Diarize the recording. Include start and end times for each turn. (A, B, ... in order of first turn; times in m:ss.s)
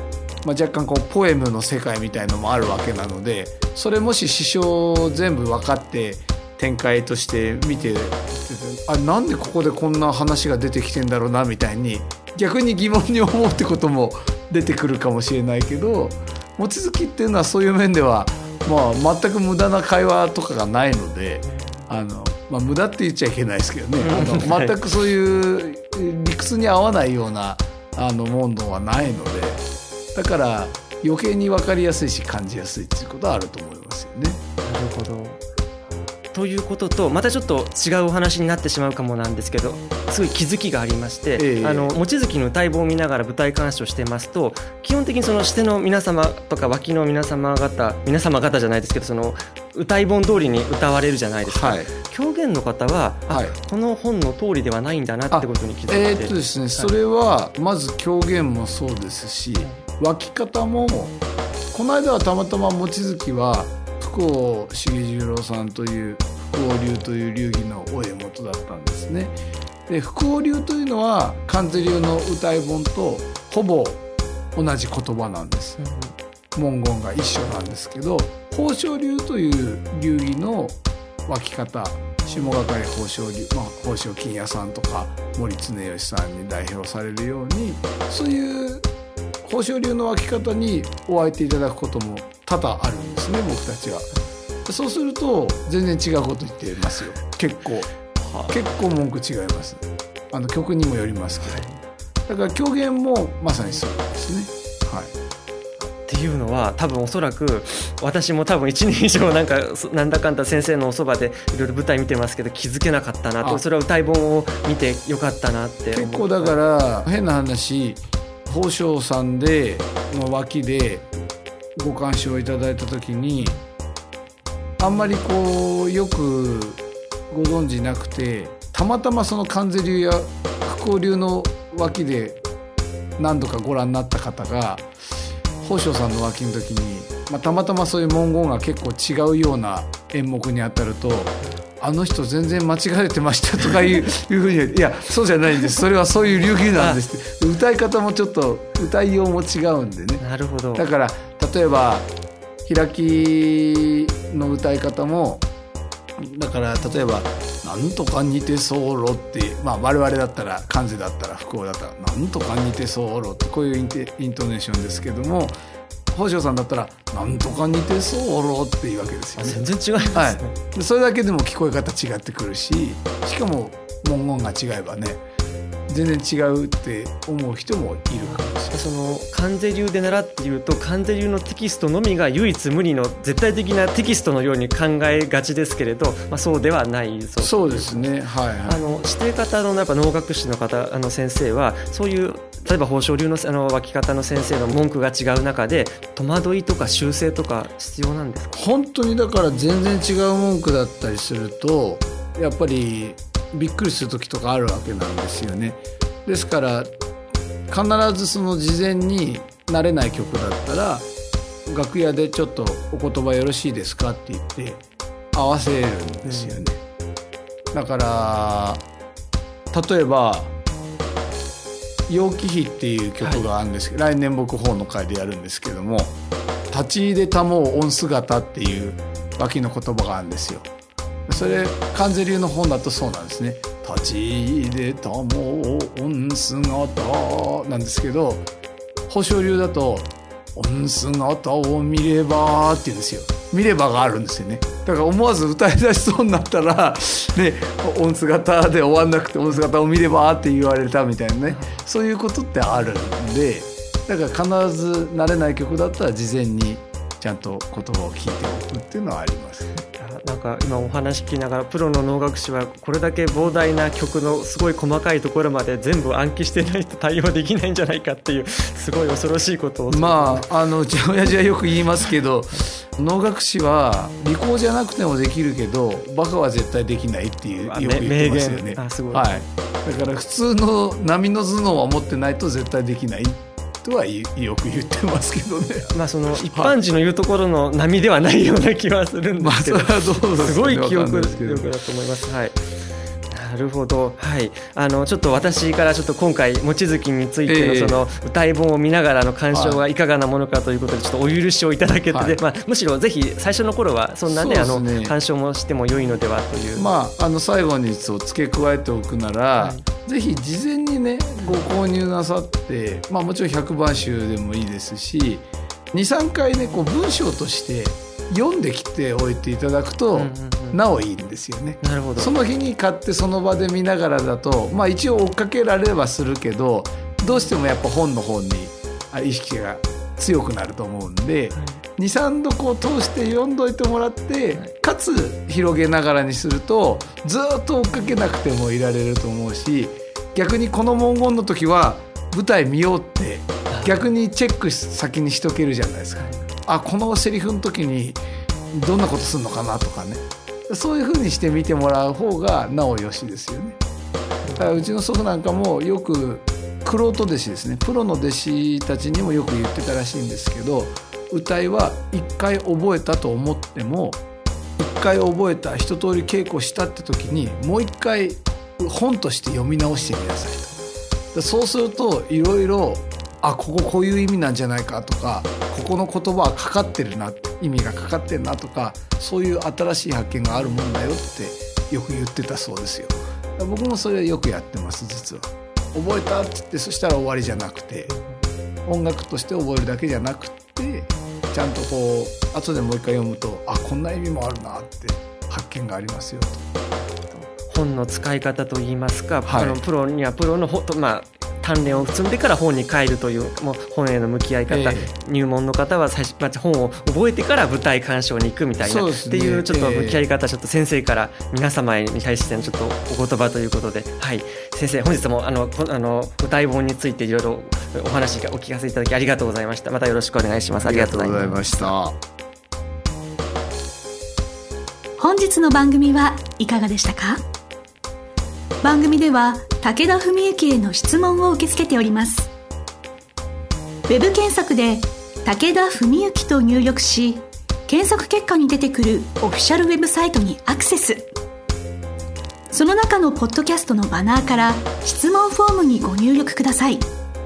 0:00.4-0:34.4 A
0:21.4-0:21.9 B
0:24.0-0:24.8 B
0:34.6-0:35.4 B
0:36.3-0:56.9 B
0:41.4-0:42.0 A
0:51.4-0:51.9 A
0:53.3-0:53.5 A
0:55.3-1:01.2 A
1:01.7-1:09.4 A
1:09.9-1:14.0 A
1:14.5-1:15.8 A
1:15.8-1:16.2 B
1:16.5-1:28.9 A
1:29.4-1:34.1 A
1:34.6-1:37.9 A
1:38.2-1:38.6 B
1:38.5-1:41.6 A
1:41.4-1:41.8 B
1:42.3-1:45.1 A
1:46.0-1:56.6 B
1:55.9-2:01.1 A
2:01.8-2:03.6 A
2:04.8-2:12.4 A
2:13.2-2:14.9 A
2:15.6-2:30.2 A
2:26.7-2:27.0 B
2:30.2-2:30.9 B
2:30.7-2:32.1 A
2:32.6-2:35.5 A
2:36.2-2:45.6 A
2:46.1-2:55.2 A
2:49.4-2:50.6 B
2:55.9-2:58.8 A
2:58.2-3:18.6 B
3:07.4-3:08.8 A
3:18.5-3:26.9 A
3:27.7-3:31.1 A
3:31.6-3:36.8 A
3:36.2-3:36.6 B
3:37.7-3:38.8 A
3:39.7-3:40.5 A
3:42.1-3:46.1 A
3:43.2-3:43.5 B
3:46.7-3:50.7 A
3:51.3-3:58.5 A
3:59.1-4:19.8 A
4:11.5-4:11.8 B
4:19.8-4:30.5 B
4:29.9-4:46.8 A
4:37.6-4:39.4 B
4:45.9-4:52.6 B
4:49.4-4:51.7 A
4:53.3-5:06.9 B
4:57.4-4:58.1 A
4:59.5-4:59.8 A
5:02.1-5:02.4 A
5:04.2-5:05.1 A
5:06.7-5:48.2 A
5:09.6-5:09.8 B
5:20.1-5:20.8 B
5:21.8-5:22.4 B
5:31.5-5:31.8 B
5:43.7-5:44.1 B
5:46.2-5:46.4 B
5:48.7-5:53.8 A
5:54.4-5:54.9 B
5:54.6-6:04.2 A
6:04.8-6:10.7 A
6:11.3-6:28.1 A
6:28.1-6:28.4 B
6:28.8-6:36.6 A
6:37.2-7:02.0 B
6:39.4-6:39.8 A
6:44.7-6:45.1 A
6:48.8-6:50.2 A
7:00.8-7:02.2 A
7:05.2-7:07.4 C
7:08.8-7:12.5 C
7:14.1-7:21.3 C
7:22.7-7:27.1 C